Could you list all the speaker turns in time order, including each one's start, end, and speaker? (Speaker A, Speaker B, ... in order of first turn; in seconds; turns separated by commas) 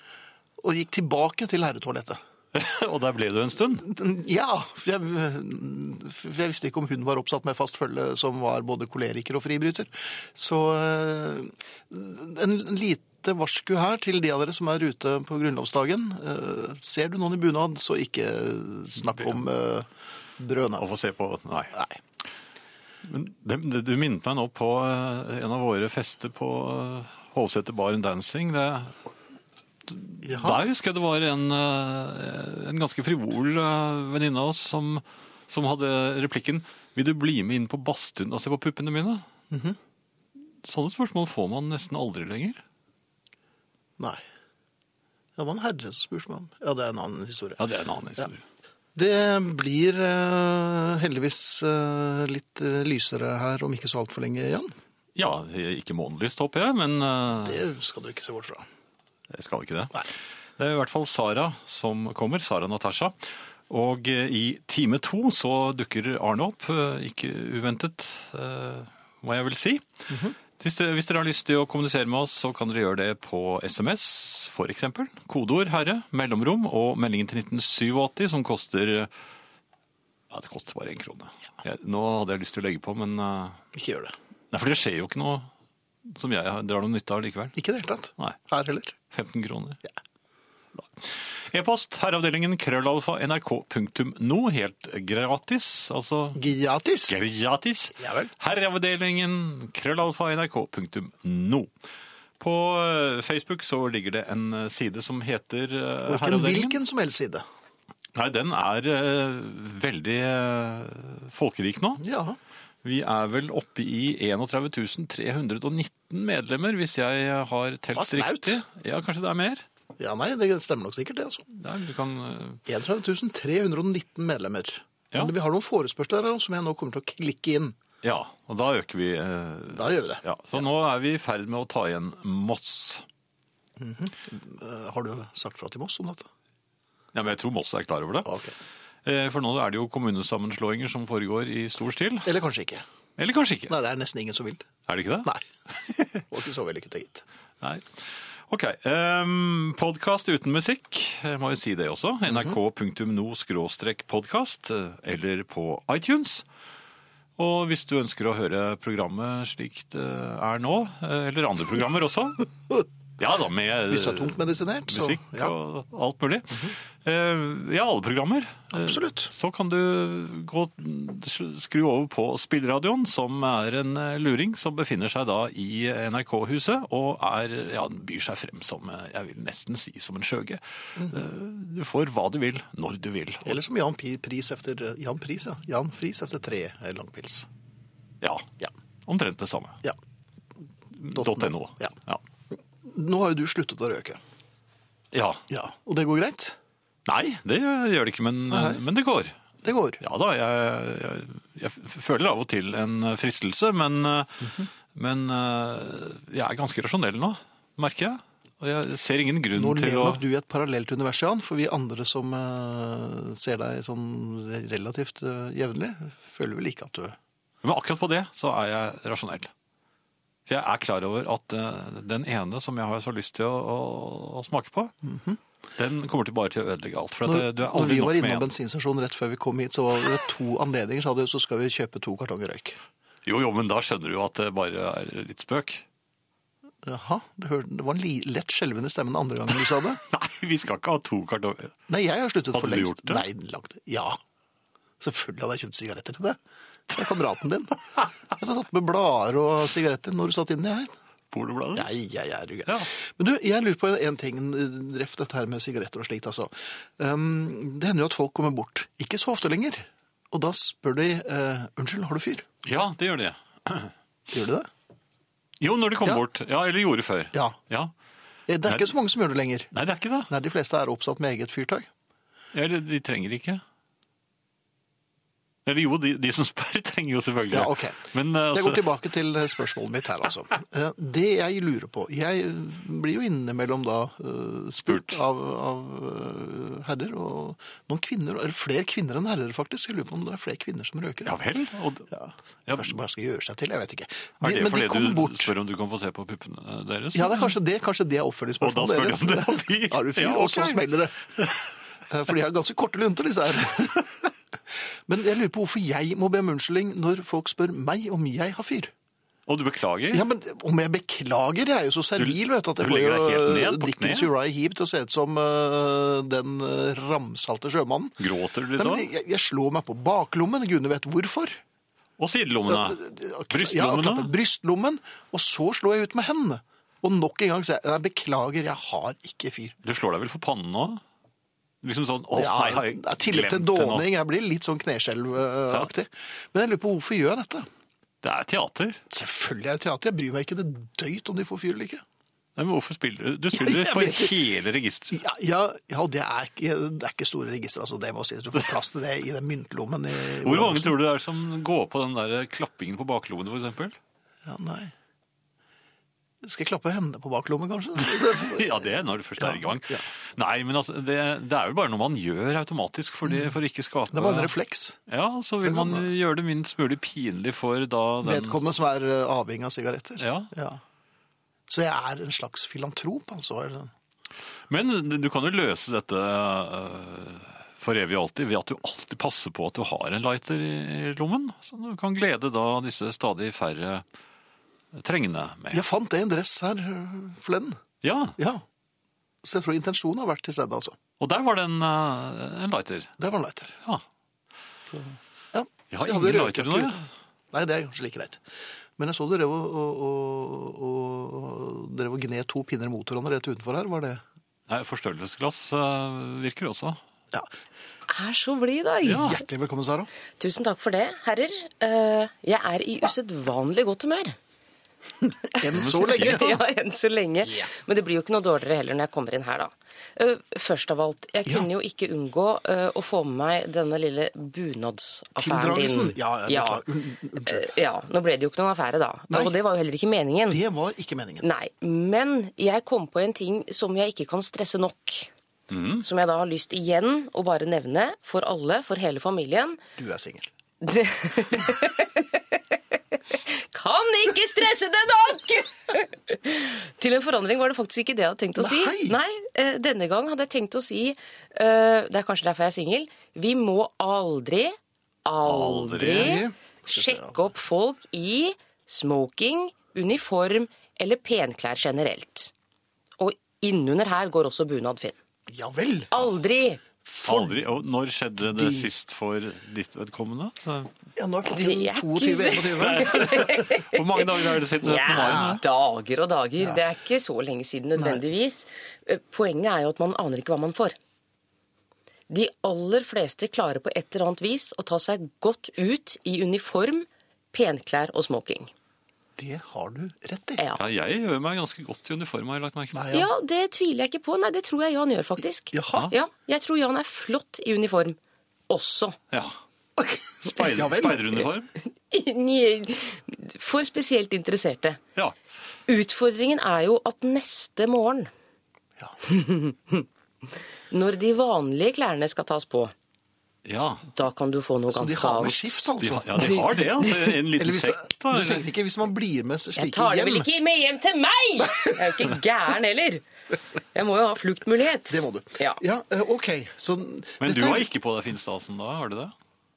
Speaker A: 0.6-2.2, Speaker B: 2.5-3.9, Speaker A: 3.8-20.9, Speaker B: 20.8-21.8, Speaker A: 21.7-22.0, Speaker B: 23.0-29.0, Speaker B: 29.9-39.2, Speaker A: 30.2-30.6, Speaker A: 39.5-39.8, Speaker B: 40.6-42.6, Speaker A: 45.4-47.6, Speaker B: 47.6-48.4, Speaker A: 49.0-54.7, Speaker B: 55.1-57.7, Speaker A: 57.5-58.7, Speaker B: 59.3-79.1, Speaker B: 80.3-83.6, Speaker A: 83.7-84.2, Speaker B: 84.5-85.5, Speaker B: 86.1-87.6, Speaker A: 87.5-89.0, Speaker B: 89.1-89.8, Speaker B: 90.8-96.4, Speaker A: 96.4-97.1, Speaker B: 97.1-101.7, Speaker A: 98.0-98.3, Speaker B: 102.4-106.8, Speaker A: 106.1-107.5, Speaker B: 108.2-112.0, Speaker A: 112.0-112.4, Speaker B: 112.8-119.6, Speaker A: 118.0-118.6, Speaker A: 120.0-121.5, Speaker B: 121.5-122.6, Speaker A: 122.7-127.8, Speaker B: 128.0-133.1, Speaker A: 129.8-130.7, Speaker A: 133.8-136.3, Speaker B: 137.1-138.3, Speaker A: 138.2-138.6, Speaker B: 139.1-142.3, Speaker A: 142.2-142.8, Speaker B: 143.2-143.7, Speaker A: 143.7-144.7, Speaker B: 144.9-146.2, Speaker A: 146.3-147.2, Speaker B: 147.6-156.4, Speaker A: 152.3-152.6, Speaker B: 157.4-162.5, Speaker B: 163.2-164.4, Speaker A: 163.9-165.5, Speaker B: 164.9-183.6, Speaker A: 168.7-169.3, Speaker A: 181.0-181.3, Speaker A: 183.4-187.5, Speaker B: 188.2-188.5, Speaker B: 189.1-189.8, Speaker B: 190.9-192.2, Speaker A: 191.1-191.9, Speaker A: 192.8-194.2, Speaker B: 195.1-195.4, Speaker A: 195.5-196.6, Speaker B: 197.1-199.4, Speaker A: 198.5-198.8, Speaker A: 199.6-200.0, Speaker B: 200.0-210.2, Speaker A: 209.6-217.2, Speaker B: 217.6-219.5, Speaker B: 220.5-224.9, Speaker A: 225.0-225.4, Speaker B: 225.8-228.5, Speaker A: 227.2-232.8, Speaker B: 233.3-235.8, Speaker A: 236.8-240.0, Speaker B: 240.0-241.8, Speaker A: 241.9-244.2, Speaker B: 242.5-243.2, Speaker A: 245.0-246.4, Speaker A: 246.9-247.8, Speaker A: 248.3-250.9, Speaker B: 251.3-251.9, Speaker A: 251.7-262.4, Speaker B: 262.6-263.9, Speaker A: 264.3-264.7, Speaker B: 265.6-267.9, Speaker A: 268.5-269.7, Speaker B: 268.6-268.9, Speaker B: 269.7-270.3, Speaker A: 270.3-271.9, Speaker B: 272.5-273.6, Speaker B: 275.7-278.8, Speaker A: 277.5-291.3, Speaker B: 284.9-285.2, Speaker B: 291.2-292.1, Speaker A: 292.1-295.5, Speaker B: 292.7-293.0, Speaker B: 294.4-297.4, Speaker A: 297.1-301.2, Speaker B: 298.6-300.8, Speaker B: 301.4-301.7, Speaker A: 302.1-304.3, Speaker A: 305.1-308.9, Speaker B: 309.5-310.2, Speaker A: 310.1-318.2, Speaker B: 312.2-314.3, Speaker B: 318.2-319.1, Speaker A: 318.8-321.6, Speaker B: 322.2-324.3, Speaker A: 322.7-329.8, Speaker B: 329.8-331.0, Speaker B: 331.8-334.1, Speaker A: 332.3-337.7, Speaker B: 338.2-339.0, Speaker A: 339.1-342.0, Speaker B: 342.6-345.2, Speaker A: 343.5-344.4, Speaker A: 345.1-351.0, Speaker B: 350.4-354.0, Speaker A: 354.4-354.9, Speaker A: 356.4-360.1, Speaker B: 358.0-364.6, Speaker A: 363.3-363.5, Speaker A: 364.1-365.0, Speaker B: 365.1-368.6, Speaker A: 365.6-366.1, Speaker A: 368.2-370.8, Speaker B: 370.2-370.5, Speaker A: 371.7-373.9, Speaker B: 374.7-384.1, Speaker B: 384.9-385.8, Speaker A: 385.7-387.8, Speaker B: 388.0-388.4, Speaker A: 388.4-388.6, Speaker A: 389.4-391.0, Speaker B: 391.2-393.1, Speaker A: 393.2-393.8, Speaker A: 394.9-397.0, Speaker B: 395.9-397.0, Speaker A: 397.5-398.4, Speaker A: 399.0-404.2, Speaker B: 404.7-407.0, Speaker C: 408.1-409.4, Speaker B: 409.0-409.4, Speaker A: 409.1-410.1, Speaker C: 410.4-414.4, Speaker A: 415.2-416.6, Speaker C: 415.6-426.8, Speaker B: 415.7-416.6, Speaker A: 425.4-427.7, Speaker C: 427.5-430.6, Speaker A: 429.3-429.6, Speaker A: 430.5-431.4, Speaker C: 431.4-435.3, Speaker B: 435.7-436.1, Speaker C: 436.0-439.8, Speaker A: 440.0-440.5, Speaker C: 440.8-462.5, Speaker A: 448.6-449.2, Speaker B: 455.4-456.4, Speaker A: 456.1-457.4, Speaker C: 463.2-465.2, Speaker A: 465.5-466.1, Speaker C: 466.1-466.9, Speaker A: 467.1-467.5, Speaker B: 467.2-470.9, Speaker A: 468.4-468.9, Speaker A: 471.2-473.5, Speaker C: 471.5-481.0, Speaker B: 472.8-475.6, Speaker A: 475.1-475.6, Speaker A: 478.0-478.2, Speaker C: 482.3-488.7, Speaker A: 489.4-490.6, Speaker B: 490.8-493.1, Speaker A: 492.9-493.3, Speaker C: 493.1-498.2, Speaker A: 495.7-496.1, Speaker C: 498.7-499.2, Speaker B: 499.3-499.6, Speaker A: 500.0-501.5, Speaker B: 500.4-501.7, Speaker C: 502.1-505.0, Speaker C: 505.9-508.3, Speaker C: 509.3-510.1, Speaker C: 510.9-512.9, Speaker B: 513.6-514.1, Speaker C: 514.1-517.3, Speaker A: 514.9-516.7, Speaker B: 516.0-518.7, Speaker A: 517.5-520.5, Speaker C: 519.8-523.2, Speaker A: 521.6-522.4, Speaker C: 523.9-525.8, Speaker A: 525.1-527.9, Speaker B: 527.4-529.3